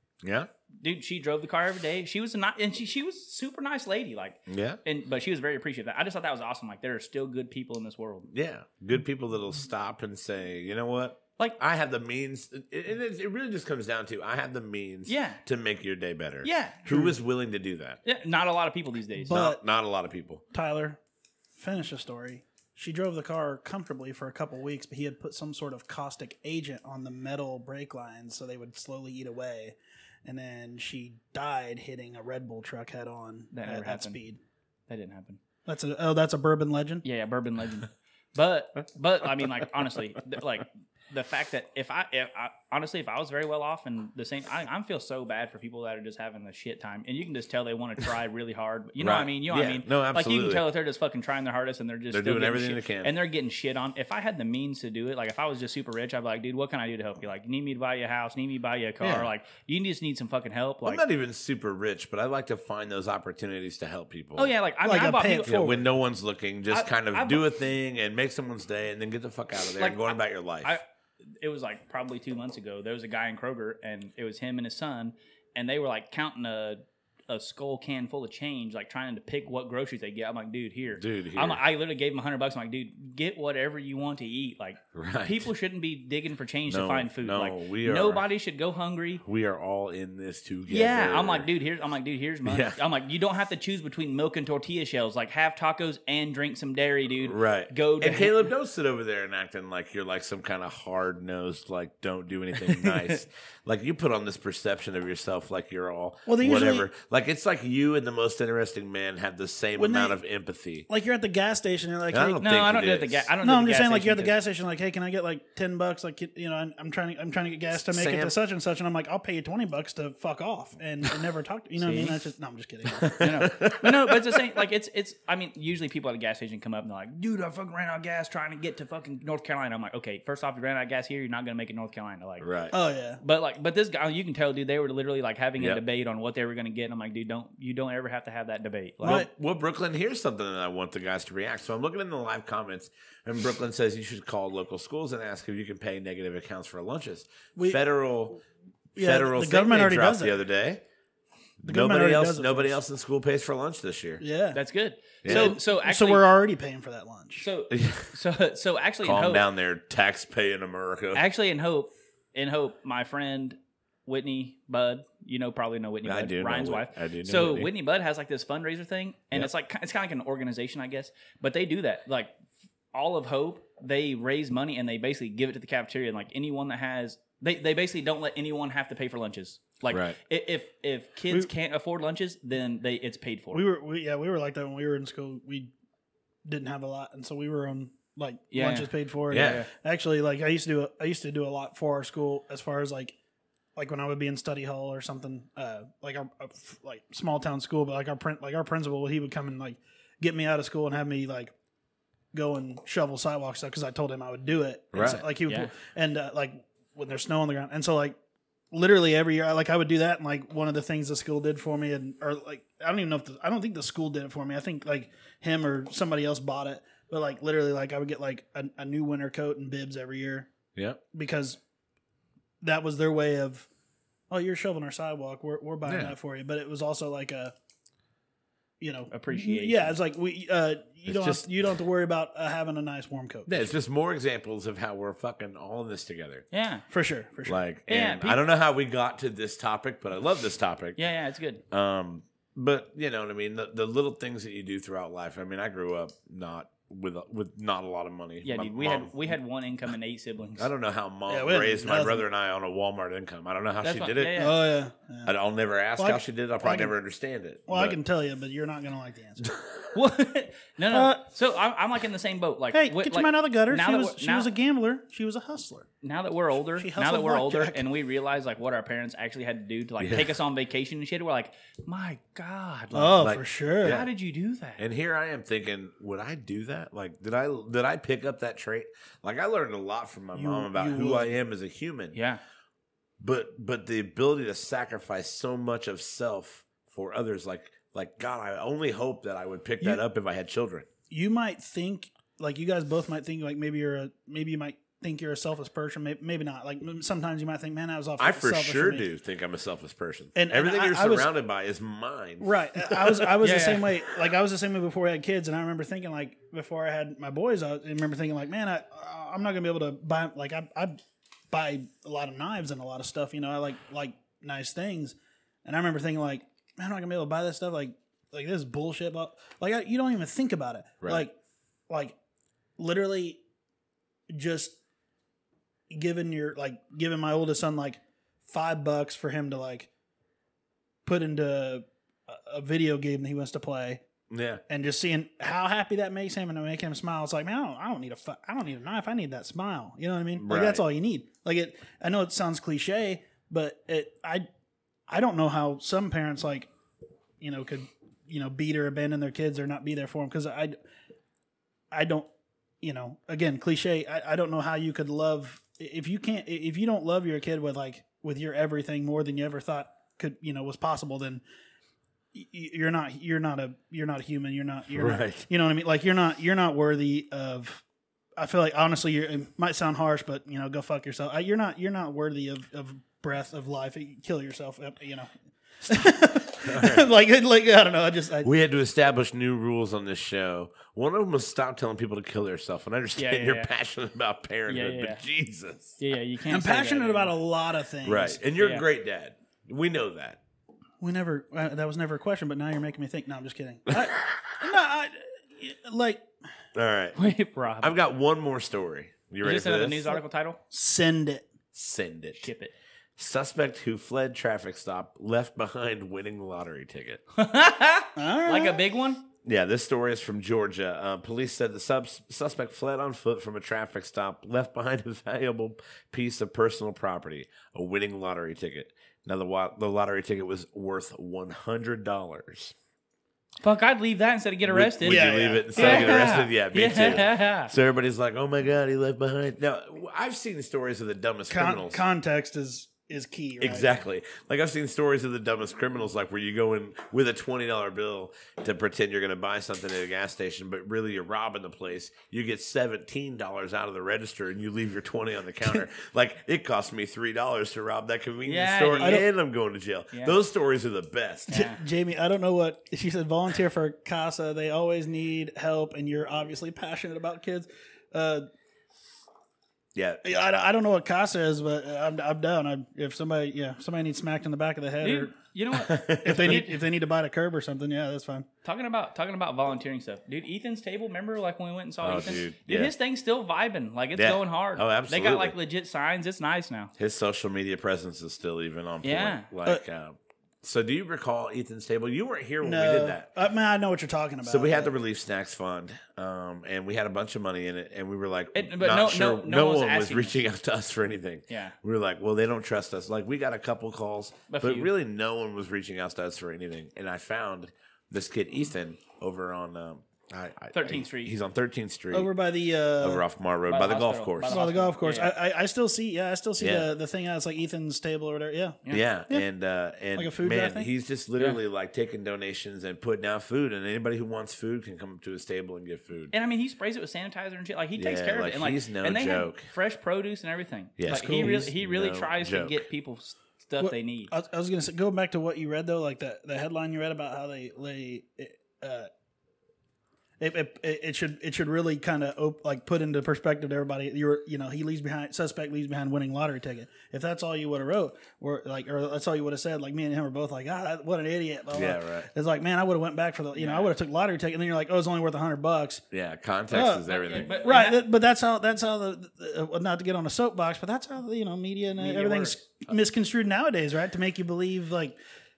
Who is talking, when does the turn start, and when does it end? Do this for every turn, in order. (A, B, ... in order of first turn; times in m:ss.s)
0:00.2-0:00.5 A
0:00.8-0:08.3 B
0:04.5-0:04.8 A
0:08.3-0:18.0 A
0:15.1-0:15.4 B
0:16.4-0:16.9 B
0:18.0-0:19.4 B
0:19.2-0:19.6 C
0:19.3-0:20.4 A
0:20.5-0:21.0 C
0:21.6-0:34.4 C
0:33.5-0:34.2 B
0:34.9-0:35.4 B
0:35.7-0:37.0 C
0:37.0-1:01.0 B
0:49.0-0:50.7 A
0:52.1-0:53.1 A
0:59.0-0:59.3 A
1:00.8-1:04.5 A
1:04.4-1:05.6 B
1:04.8-1:05.9 C
1:05.5-1:10.8 A
1:06.7-1:07.4 B
1:09.8-1:10.8 B
1:11.4-1:29.2 B
1:21.0-1:21.6 A
1:24.9-1:25.5 A
1:26.7-1:28.2 A
1:29.2-1:31.5 A
1:30.7-1:38.5 B
1:32.4-1:32.8 A
1:37.2-1:50.9 A
1:42.6-1:43.2 B
1:46.3-1:46.9 C
1:49.8-1:50.2 C
1:50.9-1:52.4 C
1:52.1-1:53.3 A
1:52.4-1:54.4 B
1:53.4-2:03.2 C
1:57.7-1:58.4 A
2:01.8-2:02.2 B
2:02.9-2:04.6 A
2:03.2-2:12.5 B
2:12.4-2:12.7 A
2:12.7-2:13.2 C
2:13.2-2:19.2 B
2:19.0-2:19.3 C
2:19.0-2:28.4 A
2:27.6-2:27.8 C
2:29.0-2:30.4 C
2:29.0-2:30.8 A
2:31.6-2:34.2 A
2:31.6-2:32.8 C
2:34.2-2:34.6 C
2:34.5-2:36.3 B
2:35.2-2:35.6 A
2:35.2-2:37.5 C
2:37.4-2:39.4 B
2:37.7-2:38.1 A
2:39.0-2:41.2 A
2:41.1-2:52.3 B
2:46.0-2:47.7 A
2:52.9-3:03.6 B
2:59.9-3:00.2 A
3:03.5-3:05.7 C
3:06.4-3:13.2 C
3:08.5-3:09.7 B
3:09.3-3:09.6 A
3:13.8-3:21.5 C
3:22.3-3:28.2 C
3:24.9-3:25.2 A
3:25.4-3:25.7 B
3:28.7-3:40.5 C
3:40.8-3:41.0 A
3:41.1-3:41.6 C
3:42.6-3:43.7 C
3:44.3-3:47.5 C
3:45.9-3:46.2 A
3:48.8-3:53.7 C
3:49.1-3:49.9 B
3:51.1-3:51.5 A
3:53.5-3:56.4 A
3:56.5-3:56.8 B
3:56.9-3:57.6 C
3:57.5-4:01.0 A
3:57.9-3:58.4 B
4:01.0-4:01.6 B
4:01.7-4:09.2 A
4:08.4-4:10.7 B
4:10.6-4:14.5 A
4:11.3-4:12.2 C
4:13.8-4:14.6 B
4:14.4-4:15.3 C
4:15.3-4:18.0 A
4:16.0-4:17.0 C
4:17.7-4:19.6 C
4:19.4-4:19.7 A
4:19.9-4:24.5 B
4:20.9-4:21.2 C
4:22.7-4:25.9 C
4:26.0-4:33.3 B
4:26.8-4:27.8 C
4:30.0-4:30.4 A
4:32.9-4:34.0 C
4:33.2-4:34.1 A
4:33.8-4:34.8 B
4:34.8-4:42.2 A
4:40.4-4:41.4 C
4:42.1-4:42.4 B
4:43.2-4:50.9 A
4:51.1-4:59.1 C
4:58.2-5:03.3 A
5:00.4-5:01.3 C
5:02.4-5:11.0 C
5:03.4-5:03.9 B
5:11.5-5:21.4 C
5:21.0-5:21.3 A
5:21.9-5:22.2 C
5:22.8-5:23.4 C
5:24.3-5:24.8 C
5:25.9-5:29.9 C
5:31.1-5:34.0 C
5:34.3-5:34.6 A
5:34.7-5:44.5 C
5:40.4-5:40.8 A
5:45.1-5:46.7 C
5:47.4-5:50.8 C
5:51.9-5:52.3 C
5:52.8-6:01.4 C
6:02.3-6:07.8 C
6:04.9-6:05.5 A
6:08.4-6:15.3 C
6:15.8-6:18.5 C
6:15.8-6:17.1 A
6:18.4-6:26.0 A
6:23.2-6:23.7 B
6:24.7-6:25.2 B
6:26.0-6:27.3 B
6:26.5-6:28.4 C
6:28.0-6:30.4 A
6:28.6-6:28.8 B
6:31.0-6:36.3 C
6:36.8-6:37.2 A
6:37.2-6:38.0 B
6:37.8-6:40.1 A
6:39.4-6:40.6 B
6:40.7-6:41.5 C
6:41.7-6:42.5 A
6:42.4-6:42.7 B
6:43.2-6:47.2 A
6:47.3-6:49.3 B
6:48.2-6:48.8 C
6:49.4-7:02.8 A
7:03.6-7:07.7 B
7:04.6-7:12.0 A
7:05.0-7:06.4 C
7:11.5-7:13.9 C
7:13.6-7:31.6 A
7:28.5-7:29.2 B
7:29.0-7:29.3 C
7:30.1-7:30.4 B
7:31.5-7:31.8 B
7:31.5-7:38.5 C
7:40.0-7:40.2 A
7:40.2-7:45.4 C
7:45.0-7:46.8 B
7:45.7-7:46.6 A
7:46.2-7:48.5 C
7:48.6-7:56.9 B
7:52.0-7:52.9 A
7:54.2-7:55.6 A
7:57.0-8:03.3 A
7:59.0-7:59.5 B
8:02.6-8:05.0 C
8:04.4-8:22.3 A
8:08.5-8:10.4 B
8:11.5-8:11.8 B
8:14.5-8:14.9 B
8:20.7-8:21.3 B
8:22.1-8:23.2 C
8:23.0-8:24.6 A
8:23.7-8:25.3 B
8:24.5-8:29.4 C
8:26.6-8:26.9 A
8:28.9-8:36.3 A
8:30.2-8:30.9 C
8:36.3-8:44.3 B
8:38.0-8:39.7 A
8:41.0-8:42.9 A
8:41.2-8:41.7 C
8:43.8-8:49.1 C
8:50.4-9:06.0 C
9:01.7-9:02.3 A
9:03.6-9:03.9 B
9:06.1-9:07.6 A
9:06.7-9:07.1 C
9:07.1-9:08.0 B
9:07.6-9:15.2 C
9:12.0-9:12.6 B